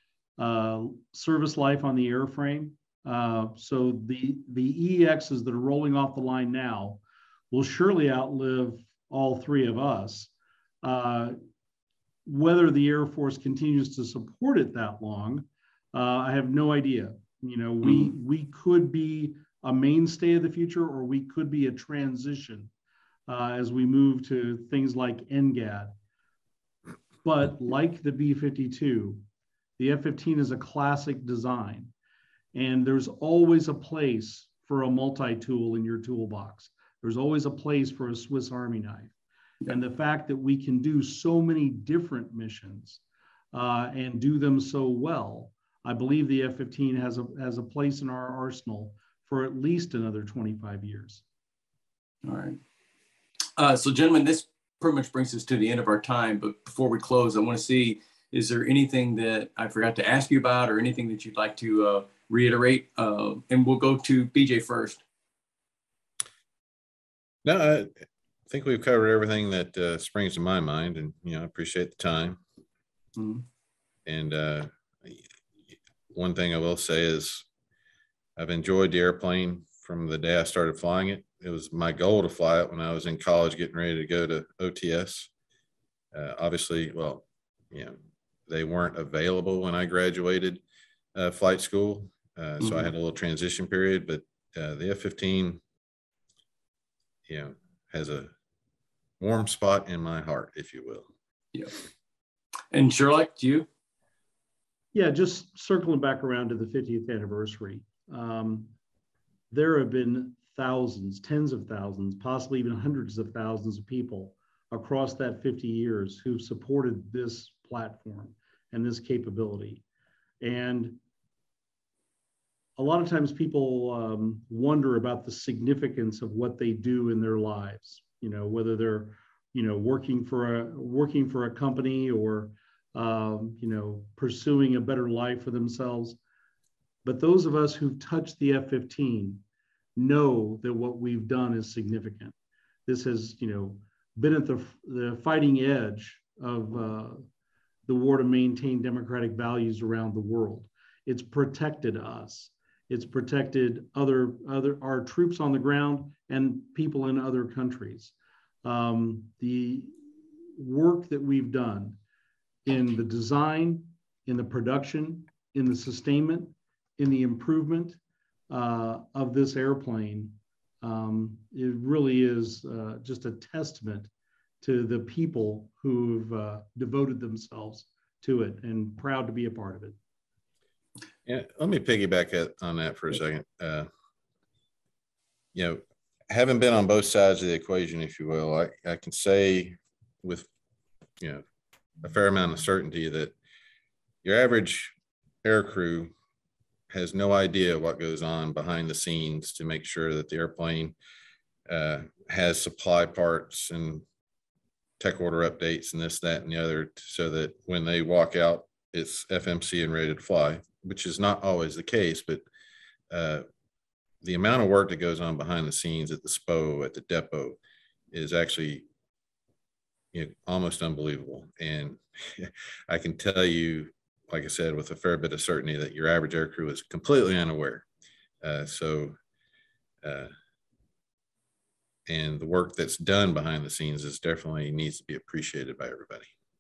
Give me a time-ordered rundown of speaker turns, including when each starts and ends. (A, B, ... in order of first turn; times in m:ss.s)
0:00.4-0:10.3 A
0:10.8-0:11.4 A
0:12.3-0:22.7 A
0:17.8-0:18.1 B
0:23.3-0:25.9 A
0:27.2-0:29.2 A
0:29.8-0:31.9 A
0:32.5-0:39.1 A
0:39.7-0:43.0 A
0:43.5-0:51.2 A
0:52.2-0:52.6 B
0:53.6-1:05.0 B
1:07.4-1:07.9 C
1:08.5-1:12.4 C
1:13.2-1:13.4 B
1:14.1-1:15.2 C
1:16.1-1:17.5 C
1:18.4-1:25.3 C
1:26.1-1:28.0 C
1:28.5-1:30.6 C
1:31.2-1:35.6 C
1:32.6-1:32.9 B
1:37.3-1:38.3 C
1:39.2-1:41.1 C
1:42.7-1:43.7 B
1:44.9-1:48.7 A
1:49.5-1:59.8 A
2:00.4-2:01.0 A
2:02.8-2:16.2 A
2:17.0-2:19.4 A
2:20.0-2:22.4 A
2:22.9-2:27.2 A
2:27.9-2:40.0 A
2:40.6-2:42.0 A
2:42.6-2:48.0 A
2:48.5-3:00.0 A
3:01.3-3:03.9 C
3:05.5-3:10.5 C
3:12.0-3:13.4 C
3:14.2-3:16.1 C
3:16.9-3:21.0 C
3:21.7-3:24.0 C
3:25.0-3:32.4 C
3:33.1-3:33.4 C
3:34.2-3:37.6 C
3:38.1-3:38.8 C
3:40.1-3:47.9 C
3:48.4-3:49.2 C
3:50.0-3:50.3 C
3:52.1-3:56.3 C